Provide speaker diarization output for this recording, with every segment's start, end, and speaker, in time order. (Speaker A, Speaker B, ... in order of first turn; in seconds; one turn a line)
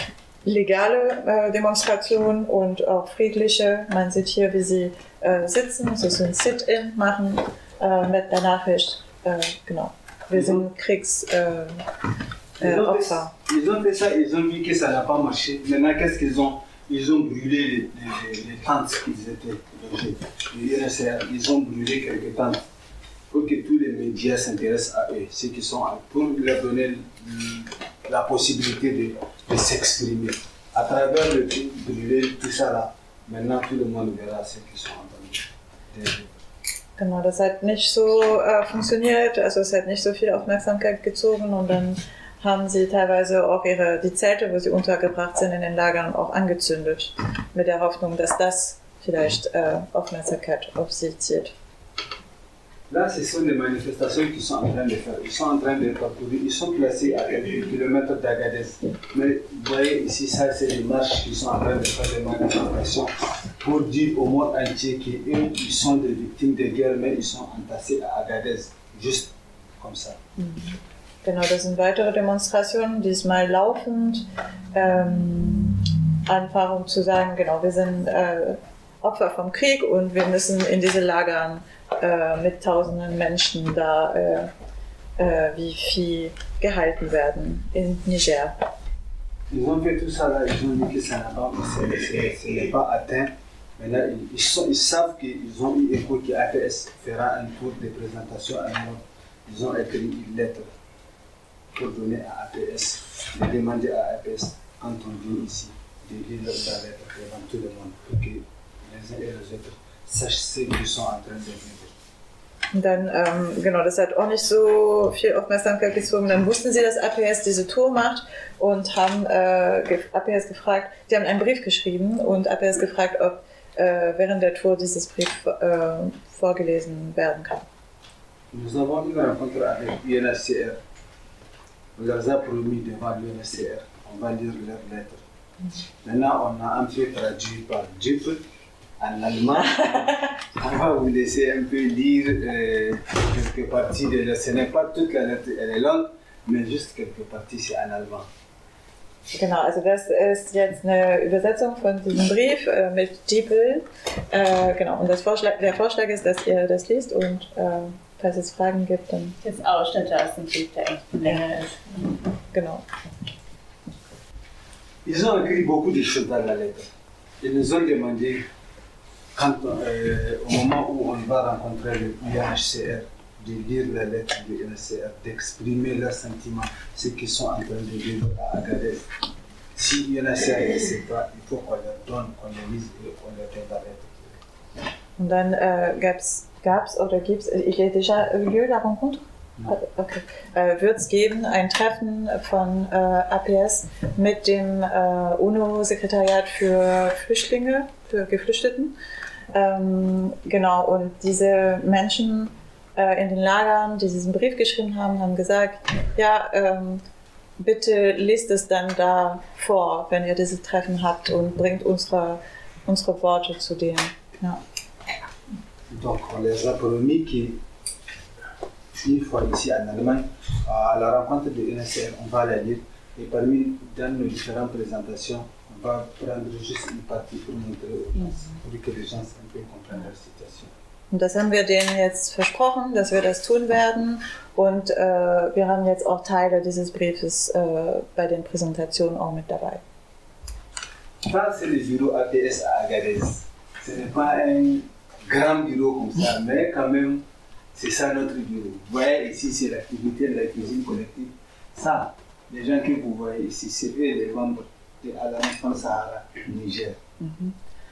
Speaker A: 0.4-11.8
Speaker B: 10.3-10.6
Speaker B: 12.6-22.6
Speaker A: 12.6-13.3
Speaker B: 23.3-36.3
Speaker A: 37.0-51.5
Speaker B: 52.9-70.2
Speaker A: 70.4-84.5
Speaker A: 85.2-88.5
Speaker B: 89.5-100.7
Speaker B: 101.7-111.9
Speaker A: 112.7-127.6
Speaker B: 128.5-130.8
Speaker B: 131.9-135.2
Speaker B: 136.0-138.4
Speaker B: 139.0-148.3
Speaker A: 149.3-159.4
Speaker C: 159.4-161.8
Speaker A: 162.5-162.8
Speaker B: 165.0-166.9
Speaker B: 167.4-168.4
Speaker B: 169.3-179.1
Speaker B: 179.7-184.4
Speaker A: 185.2-198.9
Speaker A: 199.5-207.0
Speaker A: 207.6-214.6
Speaker B: 215.9-217.6
Speaker B: 219.0-230.7
Speaker A: 231.1-239.8
Speaker B: 241.2-257.0
Speaker A: 257.2-257.5